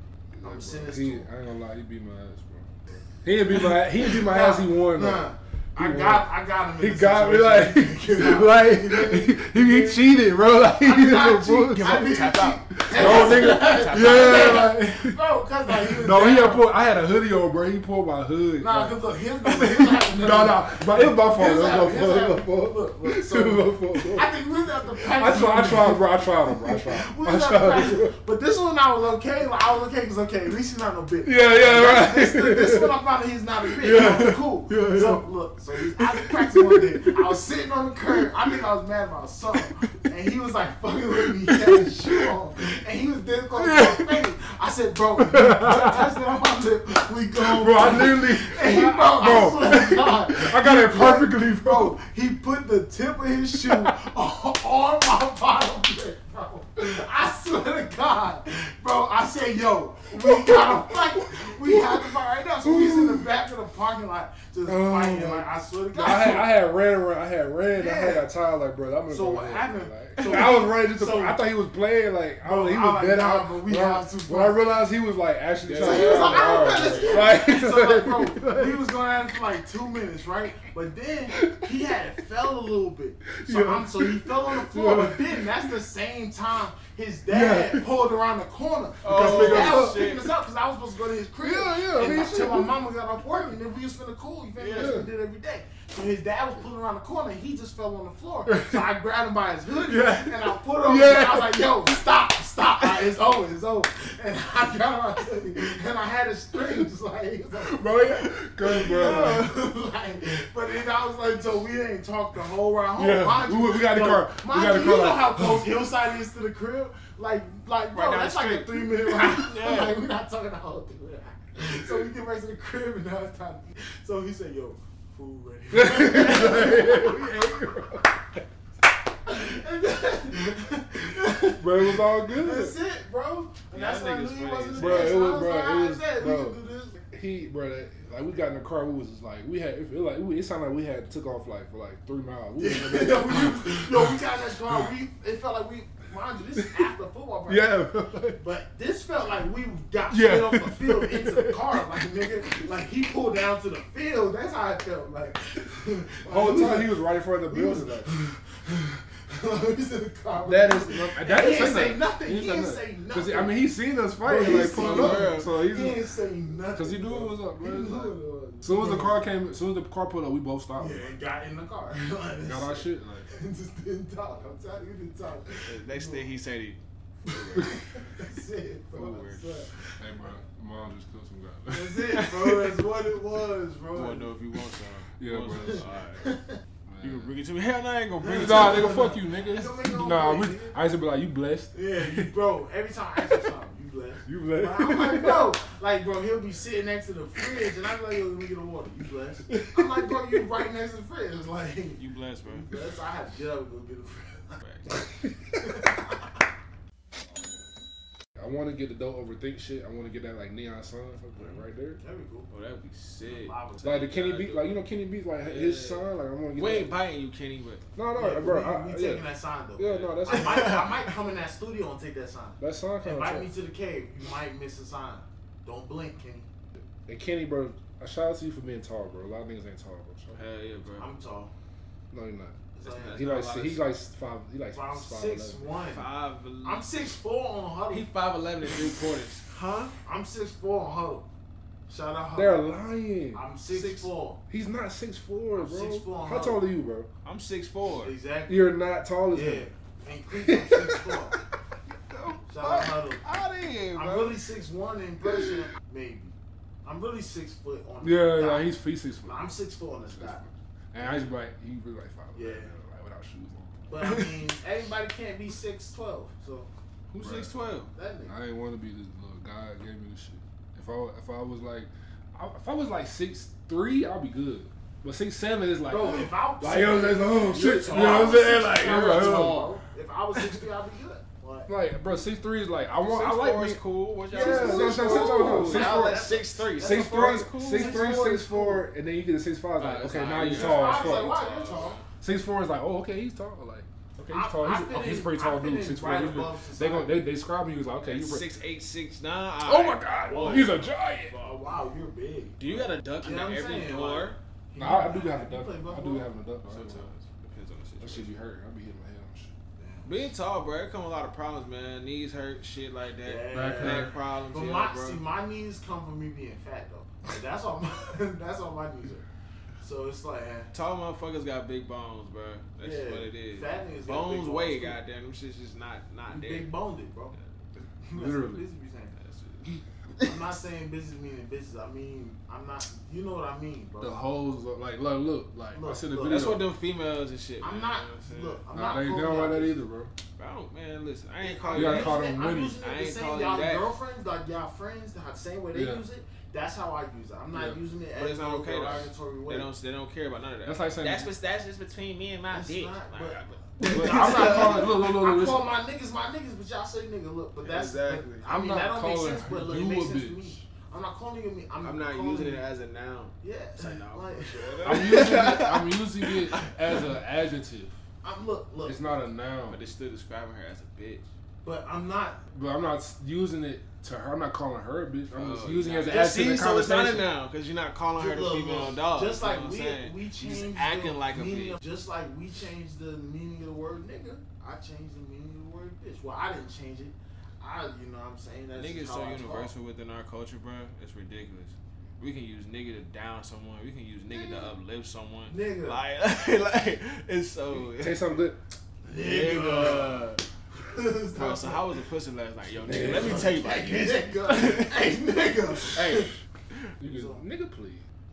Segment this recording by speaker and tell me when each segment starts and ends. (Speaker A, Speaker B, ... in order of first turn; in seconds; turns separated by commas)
Speaker A: 0.4-5.2, Speaker B: 0.4-1.3, Speaker B: 3.5-16.7, Speaker A: 5.8-6.3, Speaker A: 6.8-12.1, Speaker C: 11.8-14.7, Speaker A: 12.7-15.2, Speaker A: 15.9-24.3, Speaker B: 18.6-66.5, Speaker A: 25.0-28.1, Speaker A: 31.2-32.9, Speaker A: 33.6-35.2, Speaker A: 35.8-37.3, Speaker A: 41.5-42.3, Speaker A: 43.6-44.3, Speaker A: 45.2-46.1, Speaker A: 47.4-52.0, Speaker A: 53.6-54.0, Speaker A: 60.1-63.3, Speaker A: 64.7-78.8, Speaker B: 67.8-68.3, Speaker B: 69.1-71.4, Speaker B: 72.4-74.7, Speaker C: 75.6-77.4, Speaker B: 75.8-127.8, Speaker A: 81.3-81.9, Speaker A: 83.3-85.7, Speaker A: 87.3-87.9, Speaker C: 89.0-90.3, Speaker A: 89.1-90.1, Speaker A: 91.4-92.7, Speaker C: 94.6-95.0, Speaker A: 94.8-95.1, Speaker A: 98.5-98.8, Speaker A: 99.8-102.0, Speaker A: 107.5-109.5, Speaker C: 109.0-109.5, Speaker A: 113.0-115.8, Speaker C: 117.9-120.0, Speaker A: 125.7-128.2, Speaker B: 129.2-137.0, Speaker A: 131.6-132.8, Speaker C: 133.7-135.2, Speaker A: 134.8-144.9, Speaker B: 142.6-147.9, Speaker A: 146.6-146.8, Speaker A: 147.5-148.4, Speaker B: 148.4-163.7, Speaker A: 150.1-152.7, Speaker A: 156.3-158.2, Speaker A: 160.4-166.0, Speaker B: 164.2-169.2, Speaker C: 164.5-165.5, Speaker A: 166.8-171.1, Speaker B: 170.8-176.3, Speaker A: 172.4-173.3, Speaker C: 175.6-177.8, Speaker B: 177.3-180.0, Speaker C: 178.9-179.6, Speaker A: 180.0-182.2, Speaker B: 181.7-184.3, Speaker C: 182.1-182.7, Speaker C: 183.9-186.4, Speaker A: 185.2-185.8, Speaker B: 185.6-186.6, Speaker A: 186.9-187.3, Speaker C: 187.0-189.2, Speaker B: 188.2-190.8, Speaker A: 188.3-192.3, Speaker B: 191.7-204.6, Speaker A: 194.3-195.5, Speaker A: 199.5-200.4, Speaker C: 202.0-202.7, Speaker C: 204.6-204.9, Speaker B: 205.6-206.2, Speaker A: 208.4-212.0, Speaker B: 211.4-212.5, Speaker C: 212.5-214.8, Speaker B: 213.2-214.2, Speaker A: 213.8-217.0, Speaker C: 215.4-217.9, Speaker A: 218.0-219.2, Speaker B: 218.2-226.5, Speaker A: 219.8-220.9, Speaker C: 220.3-220.8, Speaker A: 222.6-223.5, Speaker A: 226.8-230.4, Speaker C: 230.3-231.1, Speaker B: 231.0-231.5, Speaker A: 232.1-232.6, Speaker B: 232.7-233.3, Speaker C: 232.8-233.8, Speaker A: 233.1-235.6, Speaker B: 234.7-236.1, Speaker C: 235.8-236.9, Speaker B: 236.6-238.1, Speaker C: 237.9-239.9, Speaker B: 240.1-241.3, Speaker B: 241.9-242.7, Speaker A: 242.3-247.1, Speaker B: 243.3-244.4, Speaker B: 245.6-246.6, Speaker C: 247.2-248.1, Speaker B: 248.0-248.8, Speaker A: 248.5-249.7, Speaker B: 249.3-251.4, Speaker A: 250.3-251.2, Speaker C: 252.1-254.4, Speaker B: 252.5-253.3, Speaker B: 253.9-258.7, Speaker A: 258.0-259.5, Speaker B: 259.2-260.4, Speaker A: 260.1-263.9, Speaker B: 262.4-262.7, Speaker B: 263.9-266.7, Speaker C: 264.0-264.3, Speaker C: 267.1-267.9, Speaker A: 267.2-267.5, Speaker B: 267.9-268.3, Speaker A: 268.3-279.7, Speaker B: 275.9-281.7, Speaker C: 277.3-279.8, Speaker A: 281.7-283.8, Speaker C: 283.0-288.3, Speaker B: 284.3-288.9, Speaker A: 284.3-291.4, Speaker C: 289.8-292.1, Speaker B: 290.4-292.0, Speaker A: 292.2-298.5, Speaker B: 294.3-297.2, Speaker C: 298.1-300.8, Speaker A: 299.6-301.4, Speaker B: 300.3-306.3, Speaker C: 302.6-304.4, Speaker A: 304.8-307.1, Speaker C: 306.6-308.3, Speaker A: 308.0-309.5, Speaker B: 309.8-310.3, Speaker C: 310.0-315.2, Speaker B: 313.2-319.3, Speaker A: 313.5-314.1, Speaker B: 319.8-320.7, Speaker C: 320.7-326.7, Speaker B: 322.8-325.0, Speaker B: 326.3-327.4, Speaker C: 327.3-327.8, Speaker B: 328.0-329.1, Speaker A: 328.1-328.6, Speaker C: 329.1-329.8, Speaker B: 330.2-334.2, Speaker A: 334.0-336.6, Speaker B: 335.7-336.5, Speaker C: 336.3-338.6, Speaker B: 337.6-339.8, Speaker A: 338.7-340.1, Speaker C: 340.4-344.0, Speaker B: 341.4-349.7, Speaker A: 341.7-342.8, Speaker A: 345.7-346.0, Speaker A: 347.5-347.8, Speaker C: 348.1-354.9, Speaker A: 350.6-351.3, Speaker B: 352.5-362.6, Speaker A: 353.8-355.7, Speaker C: 357.6-358.4, Speaker A: 358.5-360.6, Speaker C: 361.8-367.0, Speaker B: 363.4-365.5, Speaker A: 364.9-368.0, Speaker B: 368.2-369.1, Speaker A: 368.9-369.8, Speaker C: 369.7-371.3, Speaker B: 371.6-372.4, Speaker A: 372.5-377.3, Speaker C: 375.3-381.8, Speaker B: 376.1-376.5, Speaker B: 378.2-389.7, Speaker C: 388.8-398.2, Speaker B: 394.3-394.7, Speaker B: 395.5-396.0, Speaker A: 397.7-398.6, Speaker B: 399.0-402.0, Speaker C: 399.1-400.4, Speaker C: 401.3-405.1, Speaker A: 402.8-403.5, Speaker B: 402.9-406.4, Speaker C: 405.9-406.9, Speaker A: 407.0-408.0, Speaker B: 407.1-407.4